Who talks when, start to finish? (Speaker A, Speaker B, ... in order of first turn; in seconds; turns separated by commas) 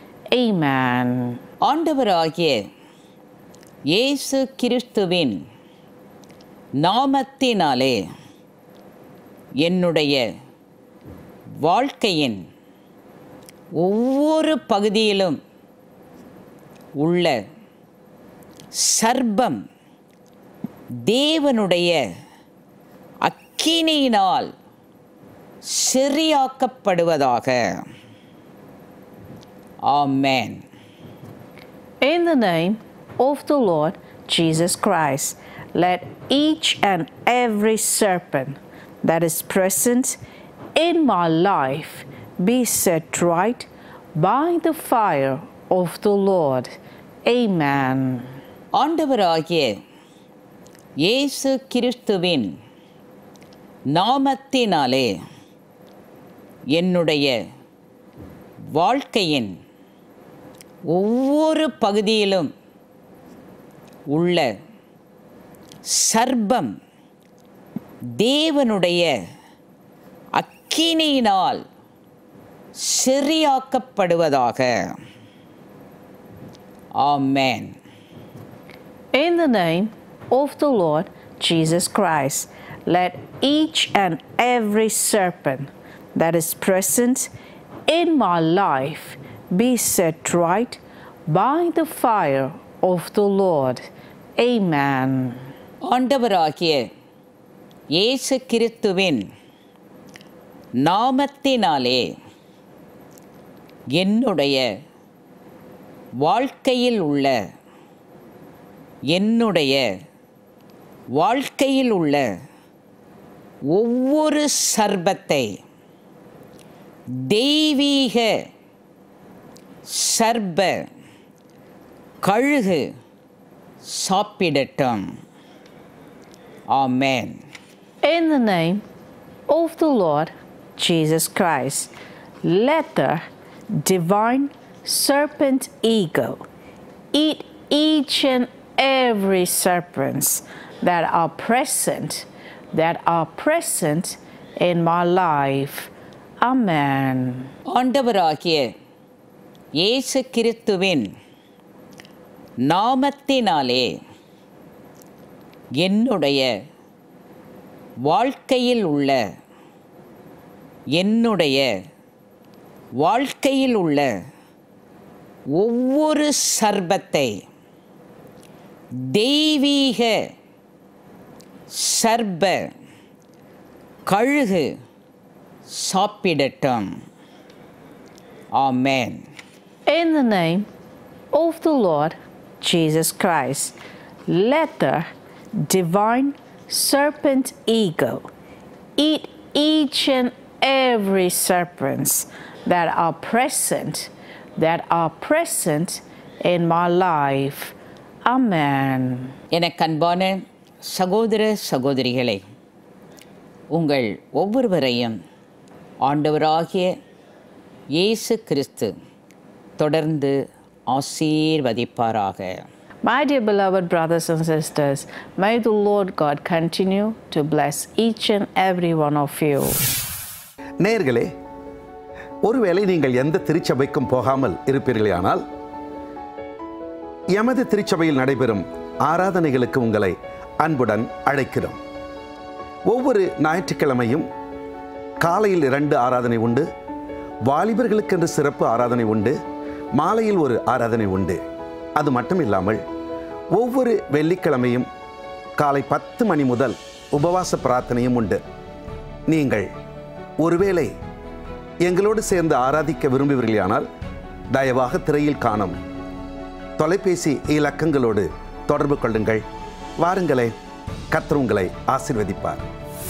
Speaker A: 0.3-1.4, Speaker B: 1.6-2.7, Speaker B: 3.9-5.4, Speaker B: 6.8-8.0, Speaker B: 9.6-10.2, Speaker B: 11.6-12.4, Speaker B: 13.8-15.4, Speaker B: 17.0-17.4, Speaker B: 18.7-19.6, Speaker B: 21.1-22.0, Speaker B: 23.2-24.5, Speaker B: 25.6-27.8, Speaker B: 29.9-30.6, Speaker A: 32.0-40.2, Speaker A: 40.7-46.7, Speaker A: 47.2-48.3, Speaker B: 48.7-49.8, Speaker B: 51.0-52.5, Speaker B: 53.9-55.1, Speaker B: 56.7-57.4, Speaker B: 58.7-59.5, Speaker B: 60.9-62.5, Speaker B: 64.1-64.5, Speaker B: 65.8-66.7, Speaker B: 68.2-69.1, Speaker B: 70.3-71.6, Speaker B: 72.8-74.9, Speaker B: 77.0-77.8, Speaker A: 79.1-87.3, Speaker A: 87.9-93.9, Speaker A: 94.4-95.4, Speaker B: 95.8-96.9, Speaker B: 97.9-99.2, Speaker B: 100.8-102.1, Speaker B: 103.9-104.7, Speaker B: 106.2-107.3, Speaker B: 109.1-109.8, Speaker B: 111.1-112.2, Speaker B: 113.7-115.6, Speaker B: 117.1-118.3, Speaker B: 119.8-120.8, Speaker B: 122.2-122.9, Speaker B: 123.8-125.2, Speaker B: 126.7-127.4, Speaker A: 128.0-128.8, Speaker A: 129.5-131.9, Speaker A: 132.4-136.4, Speaker A: 137.1-147.5, Speaker B: 147.7-148.7, Speaker B: 149.8-151.1, Speaker B: 152.6-153.9, Speaker B: 155.8-156.5, Speaker B: 158.1-159.2, Speaker B: 160.9-161.7, Speaker B: 163.0-164.1, Speaker B: 165.5-167.3, Speaker B: 169.0-170.2, Speaker B: 171.7-172.7, Speaker B: 174.1-174.7, Speaker B: 175.7-177.0, Speaker B: 178.5-179.2, Speaker A: 179.9-180.7, Speaker A: 181.3-183.8, Speaker A: 184.3-185.1, Speaker A: 185.6-188.2, Speaker A: 189.0-199.3, Speaker B: 199.5-202.4, Speaker B: 203.7-205.2, Speaker B: 206.0-206.9, Speaker B: 207.9-208.9, Speaker B: 209.8-212.7, Speaker A: 213.0-219.8, Speaker C: 220.8-221.3, Speaker C: 222.4-225.4, Speaker C: 227.3-231.8, Speaker C: 232.9-234.2, Speaker C: 235.2-236.7, Speaker C: 237.4-239.3, Speaker C: 240.0-241.4, Speaker C: 242.0-242.8, Speaker C: 243.5-244.9, Speaker C: 245.6-248.4, Speaker C: 249.3-249.7, Speaker C: 250.4-250.9, Speaker C: 251.8-253.8, Speaker C: 254.5-255.8, Speaker C: 256.8-259.4, Speaker C: 260.0-260.5, Speaker C: 261.1-262.6